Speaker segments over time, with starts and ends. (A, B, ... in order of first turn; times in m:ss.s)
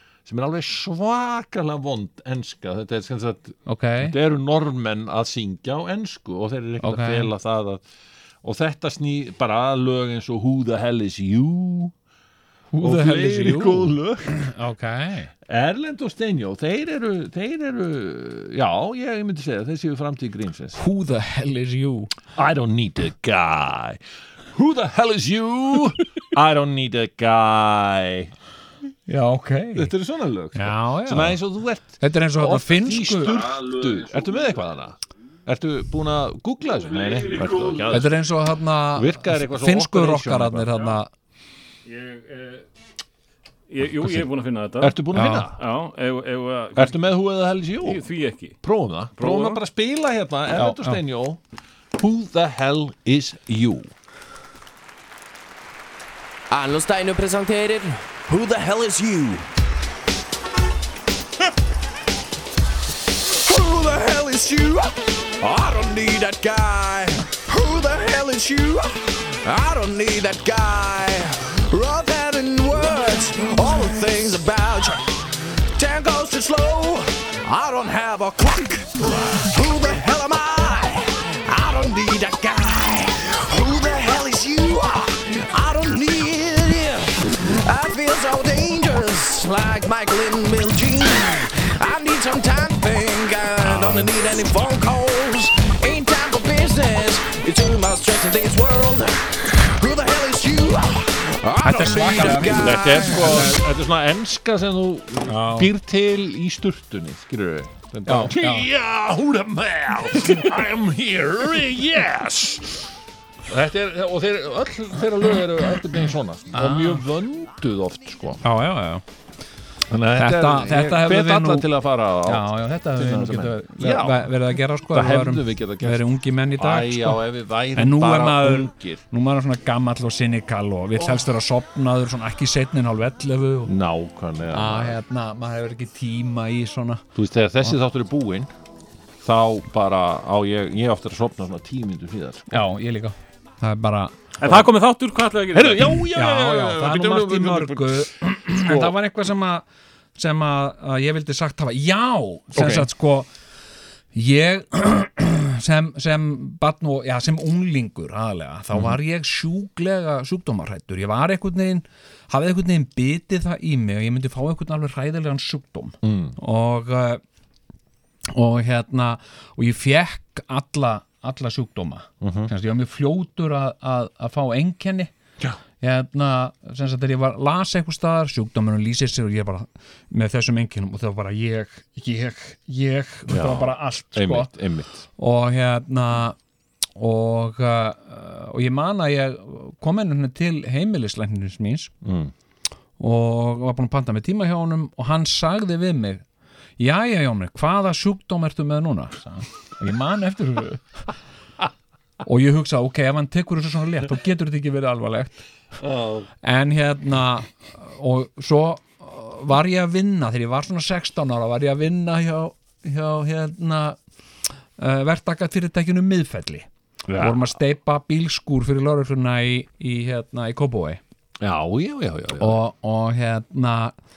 0:00.2-0:07.8 A
0:03.6-0:04.1 B
0:06.8-0:07.3 B
0:08.4-0:11.9 A
0:12.7-0:15.3 B
0:12.8-0:14.5 A
0:15.4-0:20.8 A
0:20.8-0:22.1 B
0:22.4-0:24.0 A
0:24.5-0:28.3 A
0:29.1-0:29.9 B
0:29.8-0:38.1 A
0:30.6-0:31.4 B
0:32.0-0:33.4 B
0:37.9-0:41.1 B
0:38.9-0:40.9 A
0:41.9-0:42.6 C
0:43.7-0:45.0 C
0:44.0-0:44.2 A
0:44.8-0:45.6 A
0:45.1-0:45.5 B
0:45.6-0:47.0 C
0:46.8-0:48.0 A
0:47.8-0:48.6 C
0:48.6-0:51.4 A
0:49.2-0:49.6 C
0:50.5-0:51.0 B
0:51.9-0:53.9 A
0:56.5-0:59.5 D
1:03.2-1:43.4 D
1:33.6-1:34.1 A
1:41.6-1:43.6 B
1:42.3-1:52.9 A
1:45.2-1:45.7 B
1:48.0-1:48.7 B
1:53.5-1:58.4 A
1:56.5-1:57.0 B
1:58.4-1:59.0 B
1:59.9-2:04.3 A
2:00.2-2:01.7 B
2:02.2-2:07.2 B
2:04.9-2:09.0 A
2:07.7-2:13.7 B
2:13.6-2:15.0 A
2:14.5-2:17.0 B
2:17.1-2:18.5 A
2:19.2-2:22.6 A
2:22.5-2:24.2 B
2:24.4-2:24.7 A
2:24.4-2:26.1 C
2:25.5-2:28.9 A
2:26.1-2:29.6 B
2:30.2-2:33.3 B
2:34.1-2:47.2 B
2:38.7-2:39.0 A
2:46.0-2:46.4 A
2:48.3-2:55.1 B
2:52.2-2:52.5 A
2:55.8-3:04.5 B
3:03.3-3:05.0 A
3:05.2-3:06.4 B
3:07.0-3:11.9 B
3:12.0-3:12.3 A
3:13.0-3:16.2 B
3:16.8-3:21.0 B
3:22.2-3:25.4 B
3:25.8-3:26.3 A
3:26.4-3:34.0 B
3:34.8-3:41.0 B
3:37.1-3:37.5 A
3:41.4-3:42.6 A
3:42.4-3:44.0 B